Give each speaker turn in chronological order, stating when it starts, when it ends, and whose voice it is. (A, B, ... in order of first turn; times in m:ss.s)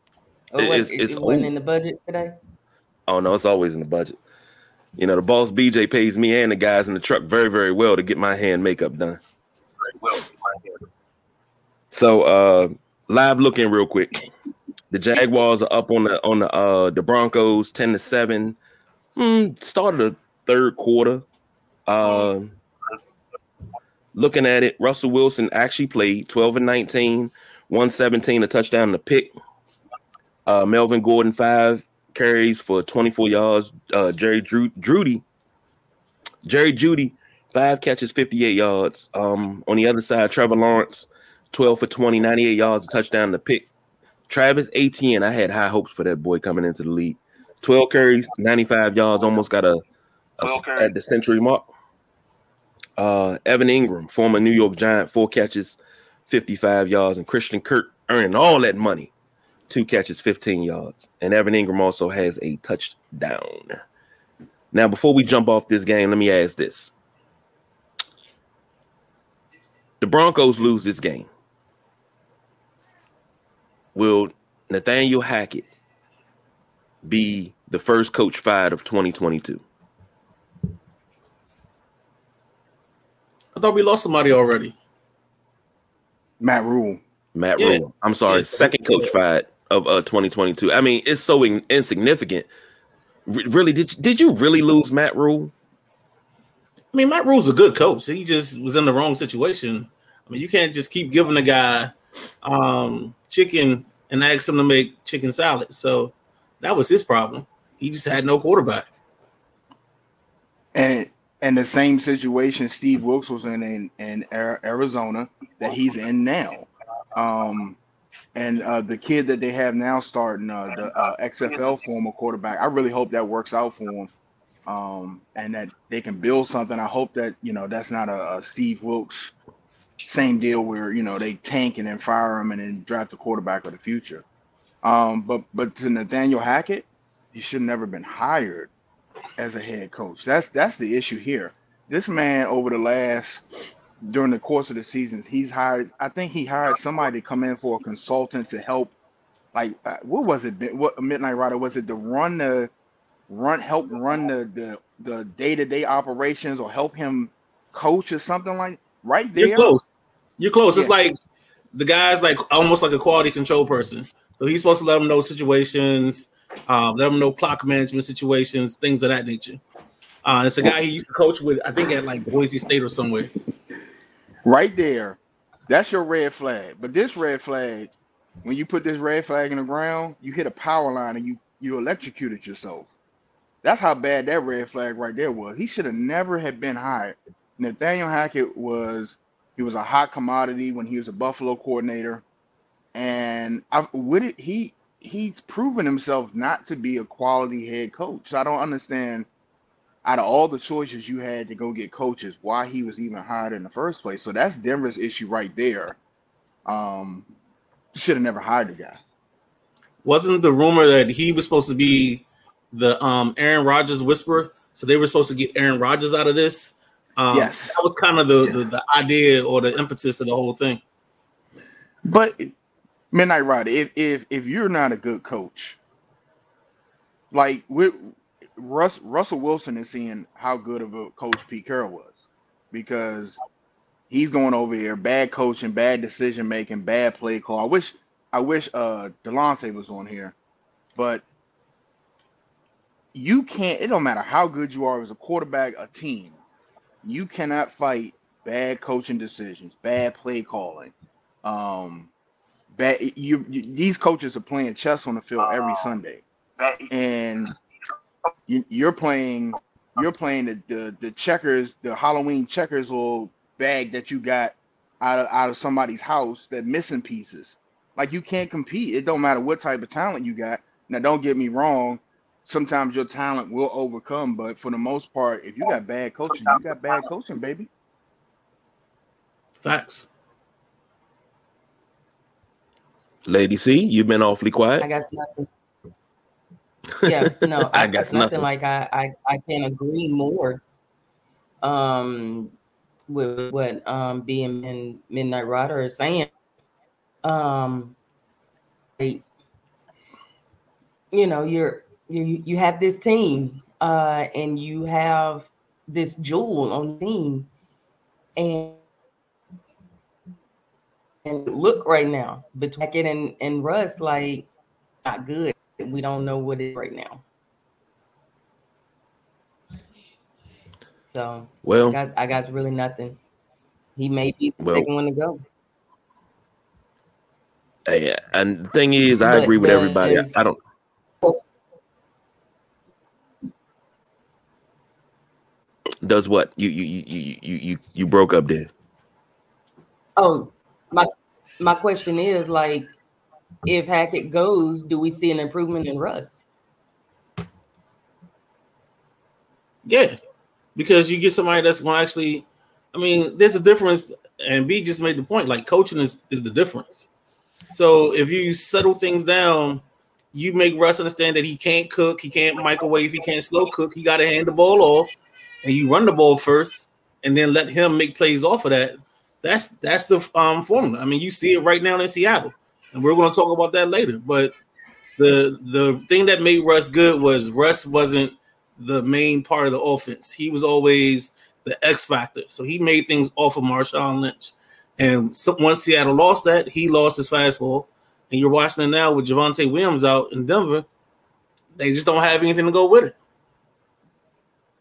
0:00.5-0:02.3 A
0:00.6-0:01.5 B
0:03.1-0:04.2 B
0:05.0-0:09.2 B
0:10.0-0:10.3 B
0:11.9-0:14.3 B
0:14.9-0:18.6 B
0:19.2-0:21.2 B
0:21.9-0:22.6 B
0:24.1-0:29.3 B
0:30.5-0:35.2 B
0:36.4-0:43.7 B
0:44.3-0:49.8 B
0:50.4-0:51.7 B
0:53.0-0:59.1 B
0:59.7-1:03.8 B
1:04.7-1:06.9 B
1:10.0-1:11.3 B
1:13.9-1:15.6 B
1:17.0-1:19.6 B
1:23.5-1:24.7 C
1:26.4-1:27.0 D
1:27.3-1:32.5 B
1:27.6-1:29.1 C
1:33.3-1:35.5 B
1:36.9-1:48.9 C
1:50.7-1:57.8 D
1:58.3-2:04.1 D
2:04.6-2:09.3 D
2:10.0-2:14.2 D
2:14.8-2:18.7 D
2:19.4-2:23.4 D
2:24.0-2:28.9 D
2:29.5-2:32.7 D
2:33.3-2:39.7 D
2:39.4-2:39.8 C
2:40.4-2:41.1 C
2:41.7-2:49.6 C
2:50.2-2:53.3 C
2:54.4-2:57.9 D
2:58.4-3:02.9 D
3:03.6-3:12.2 D
3:12.9-3:19.3 D
3:20.0-3:26.0 D
3:26.6-3:27.3 D
3:27.9-3:29.0 D
3:30.0-3:40.8 C
3:37.3-3:37.8 D
3:42.0-3:42.5 D
3:43.1-3:45.8 D
3:47.3-3:53.4 D
3:54.1-4:00.3 D
4:01.0-4:01.2 D
4:03.1-4:06.4 D
4:07.0-4:12.1 D
4:12.7-4:16.2 D
4:16.9-4:17.5 D
4:18.5-4:37.7 D
4:39.6-4:40.0 C
4:43.2-4:44.9 B
4:44.8-4:45.5 A
4:47.0-4:48.4 B
4:47.0-4:50.6 A
4:51.6-4:52.5 A
4:53.1-4:56.3 A
4:57.2-4:58.0 A
4:59.0-4:59.2 A
5:01.1-5:07.5 A
5:08.4-5:08.8 A
5:11.2-5:14.5 A
5:15.0-5:17.2 A
5:21.1-5:23.2 A
5:21.6-5:22.0 B
5:24.0-5:25.4 A
5:24.6-5:24.9 B
5:27.8-5:30.6 B
5:29.2-5:30.3 A
5:36.0-5:38.7 B
5:40.2-5:42.9 A
5:43.6-5:46.4 A
5:49.8-5:50.2 C
5:50.8-5:57.1 C
5:57.7-6:14.5 C
6:15.2-6:30.8 C
6:31.8-6:33.1 C